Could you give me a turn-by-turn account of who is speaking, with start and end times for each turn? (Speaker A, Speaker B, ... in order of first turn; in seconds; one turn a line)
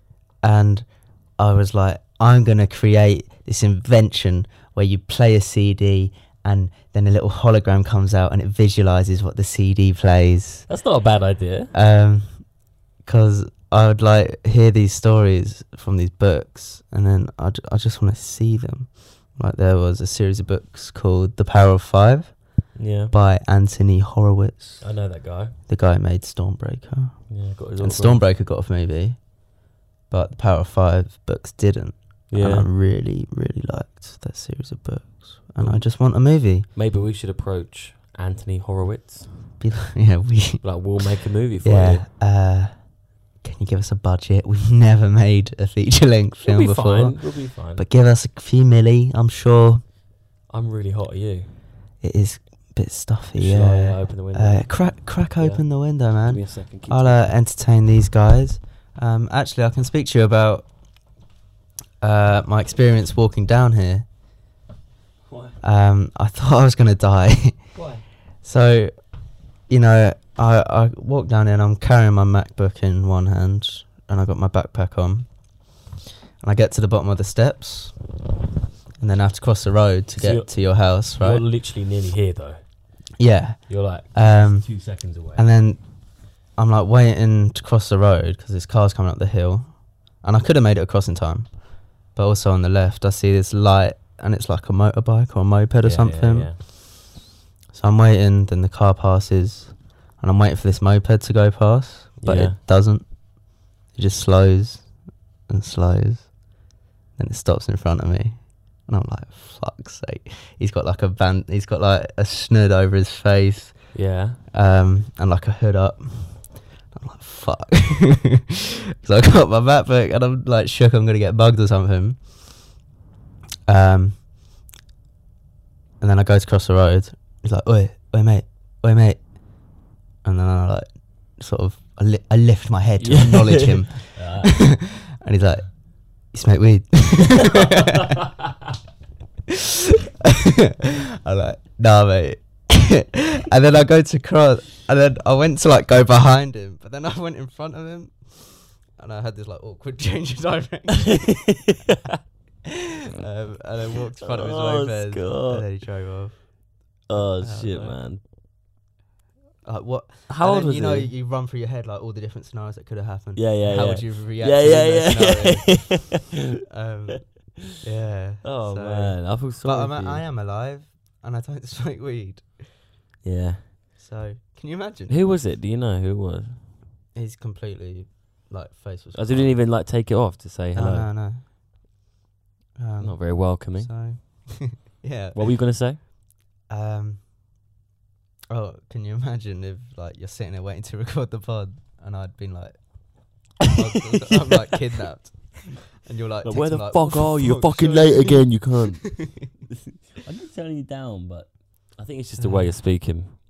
Speaker A: 0.4-10.7
Speaker B: 10.7-11.7
Speaker A: 11.7-12.5
Speaker A: 13.0-22.4
Speaker B: 22.7-23.1
Speaker A: 23.1-24.8
Speaker B: 24.8-25.6
Speaker A: 25.7-29.3
Speaker B: 27.3-28.2
Speaker A: 30.1-36.7
Speaker B: 32.3-32.7
Speaker B: 35.6-35.9
Speaker B: 36.7-39.4
Speaker A: 39.6-40.7
Speaker B: 40.6-42.0
Speaker A: 41.6-49.8
Speaker B: 46.4-47.8
Speaker B: 50.5-51.5
Speaker A: 52.0-60.7
Speaker B: 53.4-54.6
Speaker B: 55.4-55.6
Speaker B: 56.2-57.3
Speaker A: 62.0-64.0
Speaker B: 65.3-65.6
Speaker A: 65.6-67.7
Speaker B: 67.7-68.0
Speaker A: 68.4-68.9
Speaker A: 69.7-75.4
Speaker A: 76.4-78.0
Speaker A: 79.0-81.4
Speaker B: 80.2-80.5
Speaker B: 81.1-82.6
Speaker A: 83.2-84.7
Speaker B: 83.7-85.4
Speaker A: 85.3-85.9
Speaker A: 86.5-96.7
Speaker B: 95.8-96.6
Speaker A: 97.7-103.2
Speaker B: 102.2-102.6
Speaker A: 103.9-104.9
Speaker A: 105.5-106.3
Speaker A: 107.2-113.8
Speaker B: 113.9-114.4
Speaker A: 114.5-122.3
Speaker A: 123.7-124.2
Speaker A: 126.0-129.2
Speaker A: 130.2-138.1
Speaker B: 133.0-134.6
Speaker B: 137.5-137.9
Speaker A: 140.2-151.5
Speaker B: 150.9-152.2
Speaker A: 152.6-158.0
Speaker B: 154.2-155.7
Speaker B: 157.1-158.2
Speaker A: 159.6-172.6
Speaker B: 160.3-161.1
Speaker B: 163.3-166.3
Speaker B: 168.4-170.2
Speaker B: 173.2-173.7
Speaker A: 174.0-175.2
Speaker B: 175.1-176.6
Speaker A: 177.1-179.6
Speaker B: 179.1-181.1
Speaker A: 180.7-181.5
Speaker A: 182.8-185.5
Speaker B: 183.0-184.4
Speaker B: 185.3-186.0
Speaker A: 186.7-187.3
Speaker A: 188.5-199.5
Speaker B: 196.4-203.4
Speaker A: 202.4-202.8